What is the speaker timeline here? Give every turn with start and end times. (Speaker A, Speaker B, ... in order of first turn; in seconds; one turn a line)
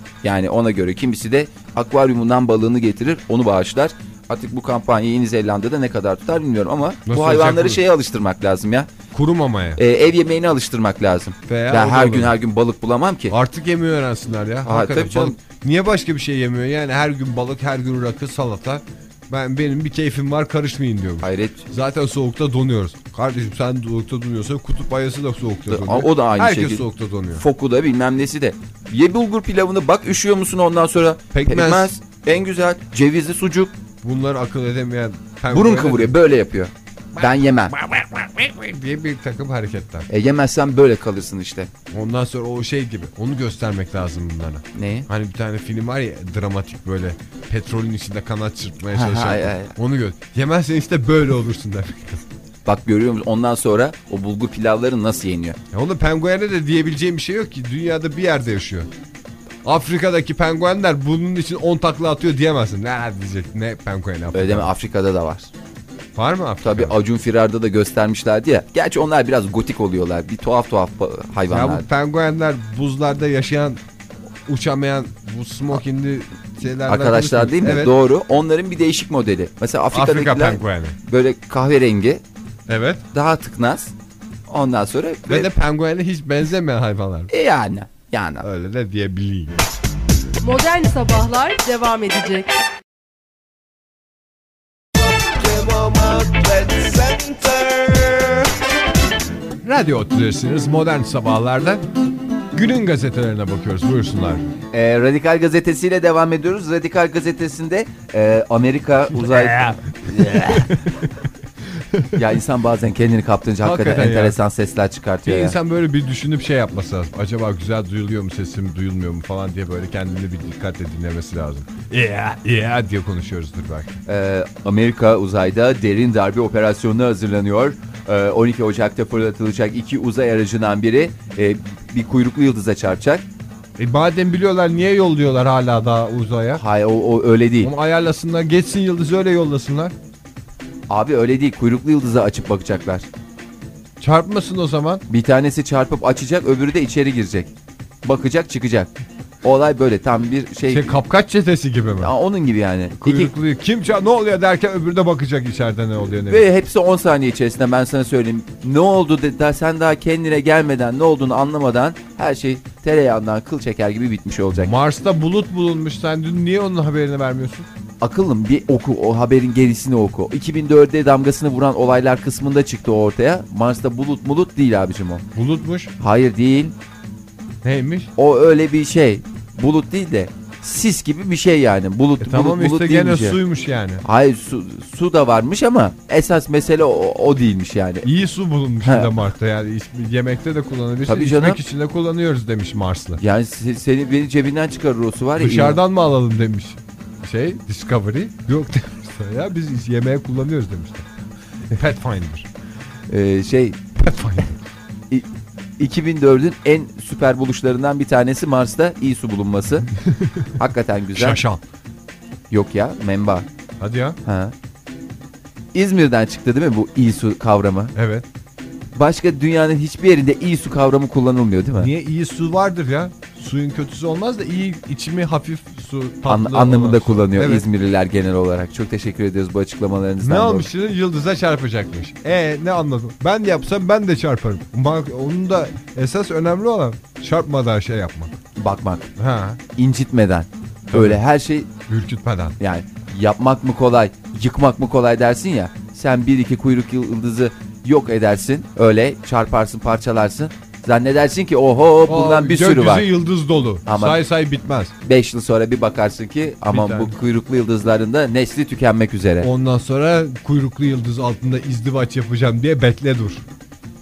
Speaker A: 0.2-8.9
Speaker B: 7.1-7.8
Speaker B: 9.1-9.8
Speaker A: 9.8-13.4
Speaker B: 11.5-12.4
Speaker B: 13.3-27.4
Speaker A: 14.7-15.4
Speaker A: 21.2-21.6
Speaker A: 25.7-33.7
Speaker B: 31.3-32.0
Speaker B: 34.0-36.1
Speaker A: 35.5-37.8
Speaker B: 37.2-40.1
Speaker A: 40.1-41.7
Speaker B: 41.9-52.2
Speaker A: 44.8-45.1
Speaker A: 48.9-49.7
Speaker A: 52.6-55.6
Speaker B: 55.7-58.9
Speaker B: 59.6-64.7
Speaker A: 64.3-65.5
Speaker B: 66.2-67.0
Speaker A: 66.6-71.9
Speaker B: 71.5-73.8
Speaker B: 74.5-78.0
Speaker A: 76.9-82.2
Speaker B: 79.9-81.0
Speaker B: 82.7-83.0
Speaker A: 83.1-83.9
Speaker A: 84.5-85.5
Speaker B: 85.3-87.3
Speaker A: 87.3-88.5
Speaker B: 88.4-89.6
Speaker C: 90.4-92.5
Speaker B: 99.6-101.8
Speaker B: 102.5-104.5
Speaker A: 104.7-110.7
Speaker B: 109.1-111.1
Speaker B: 111.9-112.2
Speaker A: 112.1-115.6
Speaker B: 113.6-114.4
Speaker B: 115.3-124.0
Speaker A: 124.1-133.3
Speaker B: 133.8-136.6
Speaker A: 136.6-137.7
Speaker B: 137.6-139.9
Speaker A: 140.9-143.1
Speaker B: 144.0-145.0
Speaker A: 145.1-147.5
Speaker A: 148.0-148.9
Speaker A: 149.4-151.0
Speaker B: 150.7-152.1
Speaker A: 152.0-153.3
Speaker B: 153.0-156.5
Speaker A: 156.2-164.7
Speaker B: 164.6-167.7
Speaker A: 168.0-175.2
Speaker B: 175.3-175.9
Speaker A: 176.0-176.8
Speaker B: 177.6-178.1
Speaker A: 178.2-183.4
Speaker B: 182.2-184.0
Speaker A: 184.0-188.1
Speaker B: 188.0-193.2
Speaker A: 188.8-189.1
Speaker A: 191.1-191.6
Speaker A: 193.2-195.8
Speaker B: 195.4-201.1
Speaker B: 201.7-202.5
Speaker A: 203.1-203.8
Speaker B: 204.0-204.6
Speaker A: 205.1-209.9
Speaker B: 210.1-210.5
Speaker A: 210.6-211.4
Speaker B: 211.2-211.6
Speaker A: 212.5-213.5
Speaker B: 213.8-214.2
Speaker A: 214.2-214.5
Speaker A: 215.7-217.9
Speaker B: 217.9-218.3
Speaker A: 218.9-221.9
Speaker B: 221.8-227.7
Speaker A: 226.3-230.7
Speaker B: 230.2-238.3
Speaker A: 238.6-239.1
Speaker B: 239.2-239.6
Speaker A: 239.8-241.7
Speaker B: 240.9-241.2
Speaker B: 241.9-242.6
Speaker A: 242.6-253.1
Speaker B: 252.1-254.9
Speaker A: 253.9-254.2
Speaker A: 255.0-259.5
Speaker B: 256.7-257.1
Speaker B: 259.4-263.4